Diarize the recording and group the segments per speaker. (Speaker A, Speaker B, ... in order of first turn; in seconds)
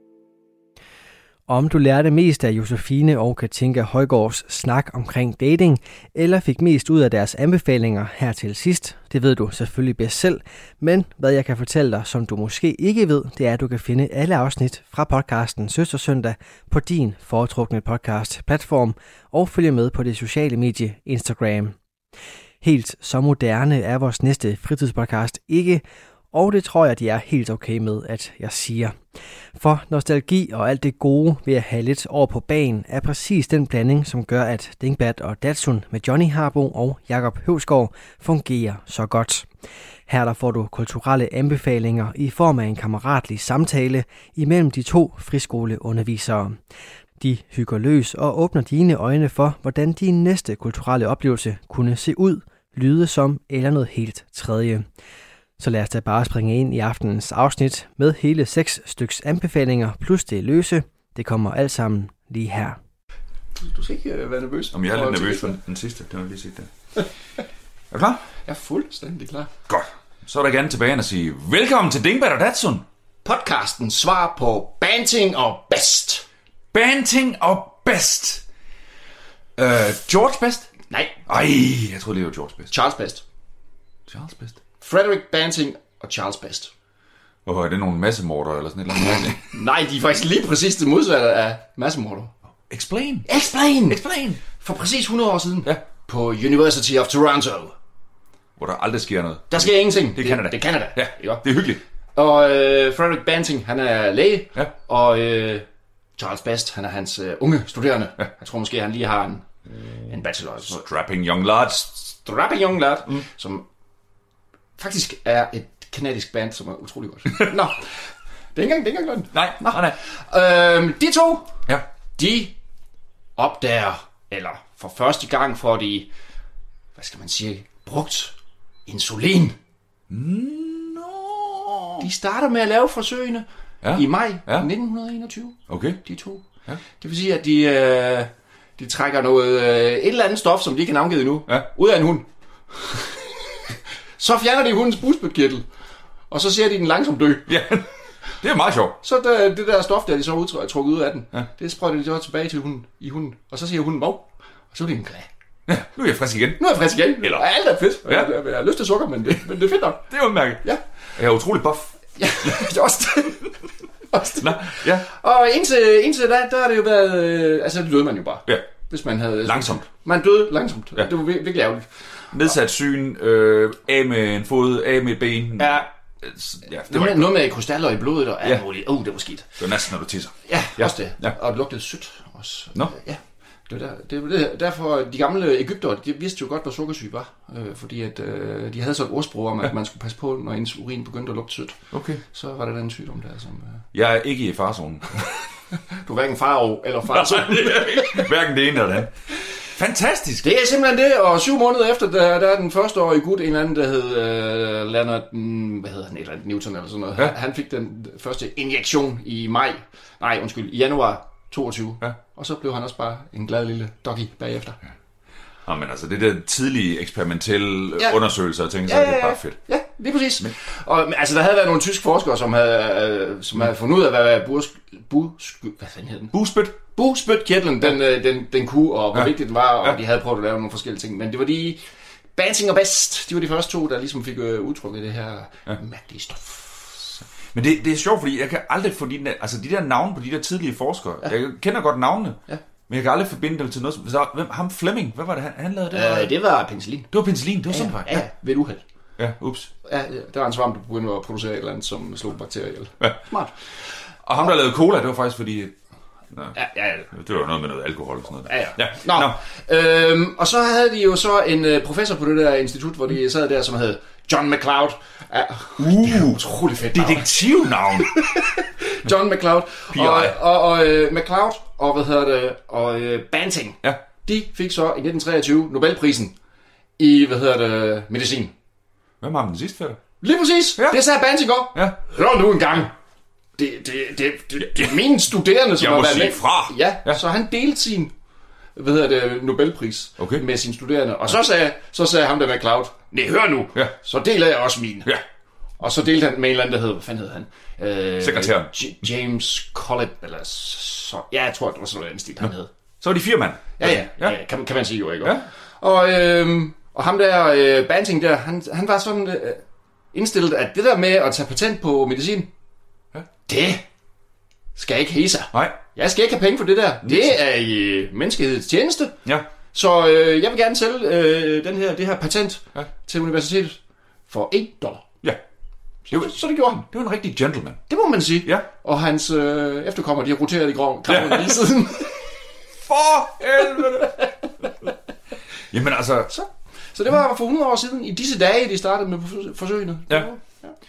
Speaker A: 1.5-21.8, 22.6-29.0, 29.5-39.5, 40.1-46.6, 47.2-54.9, 55.6-62.8
Speaker B: 63.6-65.5, 68.4-69.5, 73.2-76.2, 80.9-81.1, 82.7-83.2, 84.8-86.7, 89.0-92.3, 93.2-97.7, 99.5-101.4, 102.1-105.6, 106.2-109.5, 110.1-110.8, 112.2-113.6, 114.8-121.5, 122.2-122.5, 123.3-126.1, 127.0-128.3, 128.8-129.6, 132.0-143.2, 144.2-145.6, 146.3-147.5, 149.0-155.3, 156.6-160.1, 162.2-163.5, 164.1-172.5, 175.6-175.9, 176.9-179.6, 180.5-193.8, 195.9-198.3, 200.4-214.8, 218.8-231.8, 232.3-237.1, 245.9-247.1, 247.7-248.8, 249.8-253.5, 256.5-257.1, 258.5-276.3, 277.0-278.5, 280.2-282.9, 283.6-288.1, 288.8-295.1, 295.8-302.7, 303.8-309.6, 310.1-312.5, 313.4-313.8, 314.8-319.2, 319.7-325.2, 326.1-326.9, 327.9-332.2, 333.7-334.3, 336.3-340.7
Speaker C: 64.7-67.0, 67.9-68.2, 69.7-72.8, 76.7-78.4, 79.6-80.7, 81.3-82.7, 84.1-84.6, 87.5-89.4, 92.7-93.3, 93.9-94.4, 98.6-101.8, 110.7-112.2, 119.3-120.0, 130.1-132.1, 133.8-134.7, 135.7-136.0, 147.5-149.0, 155.7-156.6, 157.2-157.4, 158.0-158.3, 160.1-162.7, 164.4-165.1, 169.4-169.8, 172.3-177.3, 179.6-181.3, 191.9-192.2, 193.9-195.6, 197.1-200.4, 215.6-219.6, 226.3-226.8, 237.2-246.3, 247.1-248.2, 249.2-249.7, 253.0-253.3, 254.2-255.7, 257.1-259.4, 265.8-266.4, 266.9-268.3, 269.9-270.4, 279.2-280.0, 281.7-282.0, 285.8-287.2, 290.2-290.4, 298.2-298.7, 303.0-304.4, 305.2-305.5, 315.5-315.8, 317.0-317.4, 326.1-326.4, 326.9-327.8, 328.4-328.7, 331.1-331.6, 332.8-334.3, 335.7-336.3